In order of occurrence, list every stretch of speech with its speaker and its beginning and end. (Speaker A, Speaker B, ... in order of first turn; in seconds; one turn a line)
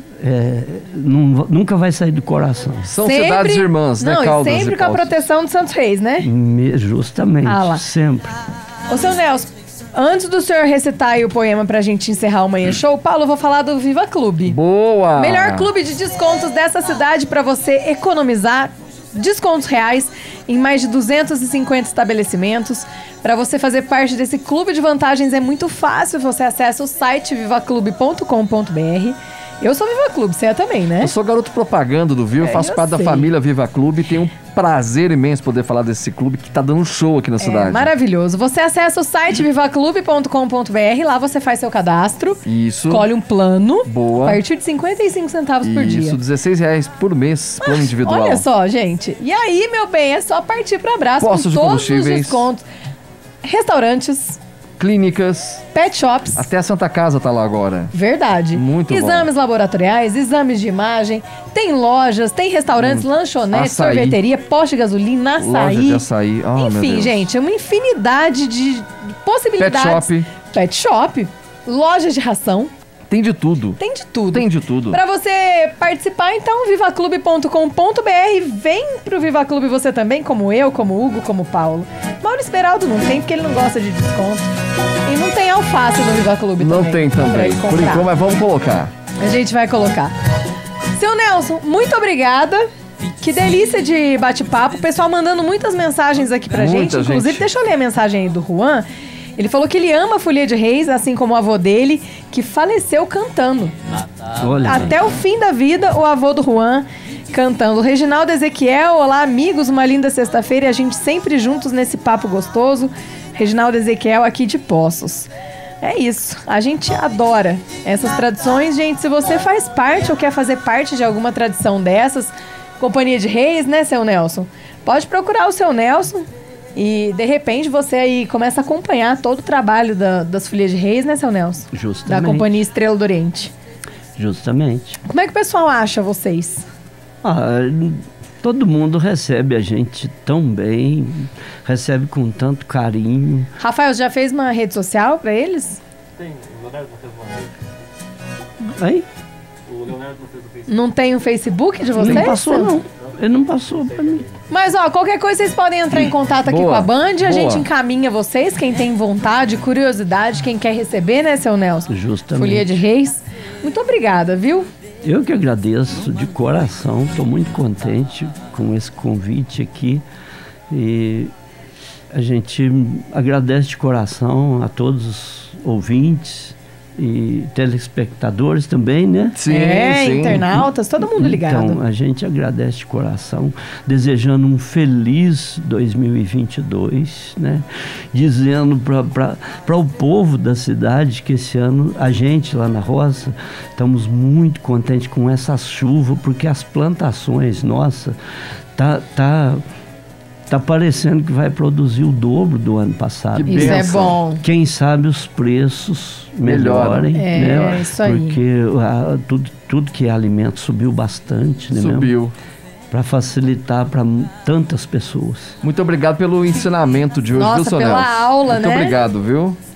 Speaker A: 0.2-2.9
Speaker B: 2.8-5.2
Speaker C: 3.0-6.3
Speaker A: 6.2-8.4
Speaker C: 7.4-7.8
Speaker C: 8.9-14.6
Speaker B: 14.4-15.7
Speaker C: 15.2-31.1
Speaker B: 31.0-37.9
Speaker C: 32.4-33.3
Speaker C: 37.4-46.2
Speaker B: 42.4-43.1
Speaker B: 43.8-44.4
Speaker B: 45.6-48.4
Speaker C: 47.6-52.6
Speaker B: 51.2-52.5
Speaker C: 53.4-54.4
Speaker B: 54.8-55.6
Speaker C: 55.7-56.5
Speaker B: 56.4-57.9
Speaker C: 57.9-66.0
Speaker B: 58.5-59.3
Speaker B: 62.8-64.2
Speaker B: 65.4-67.3
Speaker C: 66.6-72.7
Speaker B: 69.6-70.3
Speaker B: 73.1-73.8
Speaker C: 73.8-88.1
Speaker B: 74.3-75.0
Speaker B: 86.6-88.9
Speaker C: 89.2-90.1
Speaker C: 90.9-103.8
Speaker B: 96.5-97.5
Speaker A: 104.3-105.1
Speaker C: 104.6-115.3
Speaker C: 115.8-133.5
Speaker A: 131.7-132.5
Speaker A: 134.2-135.0
Speaker C: 135.0-136.6
Speaker A: 137.2-143.5
Speaker C: 143.6-145.8
Speaker A: 148.6-149.1
Speaker C: 150.7-152.7
Speaker A: 151.9-154.3
Speaker C: 154.5-164.7
Speaker B: 155.9-157.7
Speaker A: 161.9-162.7
Speaker A: 165.0-170.0
Speaker A: 170.7-171.3
Speaker A: 172.1-179.4
Speaker B: 179.3-180.6
Speaker C: 179.4-181.8
Speaker A: 181.0-198.2
Speaker A: 198.8-199.6
Speaker A: 200.5-212.1
Speaker B: 203.3-204.2
Speaker C: 203.4-204.4
Speaker B: 206.4-207.5
Speaker C: 207.1-208.4
Speaker B: 211.7-212.3
Speaker A: 212.9-215.6
Speaker B: 215.6-219.6
Speaker C: 217.4-219.0